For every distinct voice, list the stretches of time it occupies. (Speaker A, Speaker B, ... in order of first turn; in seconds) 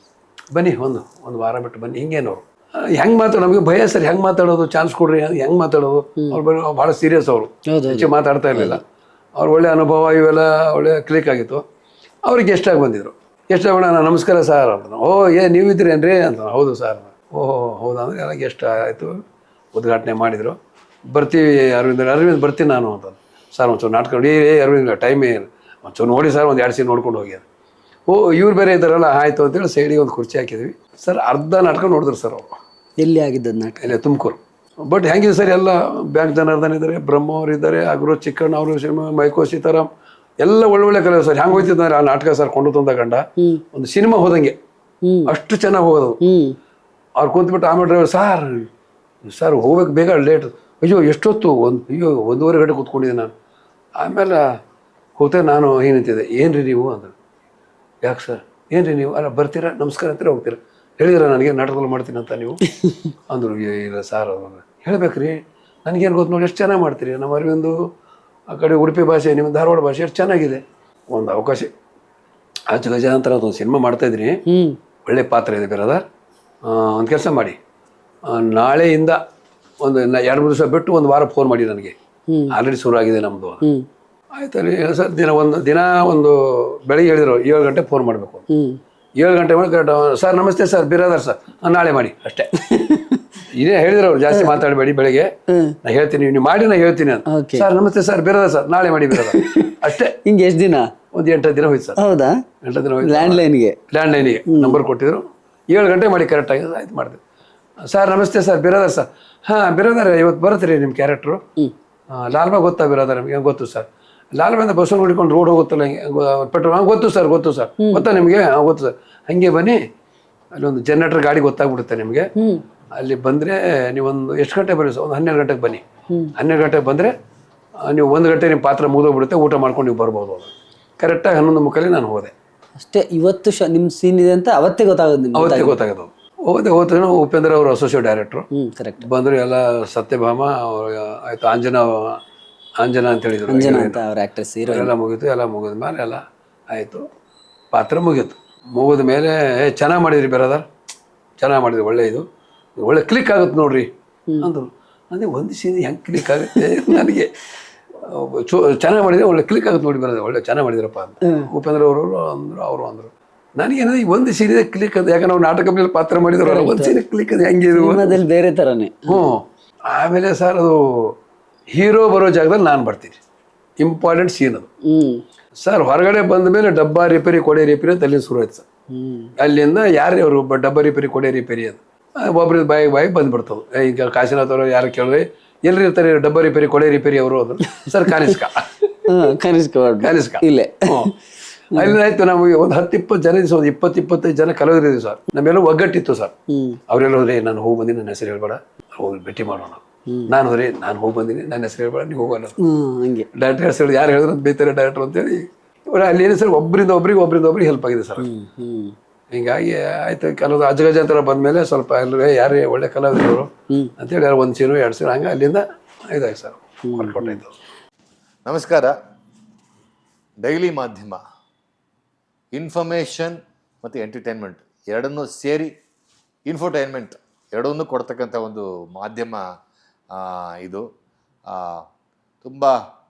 Speaker A: 0.5-8.8, 9.4-11.6, 12.2-19.2, 19.7-20.6, 21.1-27.4, 28.1-32.5, 33.8-39.9, 40.4-44.5, 45.2-46.2, 47.2-48.7, 49.2-53.3, 54.0-54.4, 55.2-57.1, 58.0-62.6, 63.3-67.9, 68.5-71.7, 72.7-74.4, 75.0-76.0, 76.6-77.6, 78.3-79.2, 79.8-81.9, 82.5-83.6, 84.3-88.5, 89.2-92.6, 93.5-95.3, 95.8-100.2, 101.1-102.0, 102.6-107.2, 107.9-111.4, 112.1-119.8, 120.5-122.3, 123.0-125.8, 126.4-127.1, 127.9-132.3, 135.3-138.4, 139.0-142.2, 142.8-144.0, 144.7-147.0, 147.7-150.7, 151.4-152.2, 152.8-153.9, 154.4-157.3, 158.0-168.2, 169.1-171.2, 171.7-173.2, 173.8-174.7, 175.6-178.6, 179.4-189.0, 190.0-191.1, 191.7-196.3, 196.9-202.6, 203.3-208.3, 209.3-217.5
Speaker B: 7.7-8.8, 33.0-33.9, 45.0-45.3, 46.2-46.5, 74.5-74.8, 82.3-82.5, 88.5-88.8, 92.6-93.2, 94.3-94.6, 95.5-95.8, 97.3-97.7, 99.1-100.9, 102.0-102.4, 103.0-103.8, 104.5-104.8, 117.8-118.0, 132.8-135.8, 138.5-139.0, 143.5-144.9, 156.5-157.0, 166.4-166.9, 167.7-169.2, 174.9-175.2, 178.9-179.3, 189.1-191.2, 196.5-196.8, 202.6-203.3, 208.2-208.9, 216.9-217.4
Speaker C: 218.4-218.9, 220.4-221.2, 222.5-225.7, 226.5-229.5, 230.1-230.8, 231.5-231.8, 232.4-232.8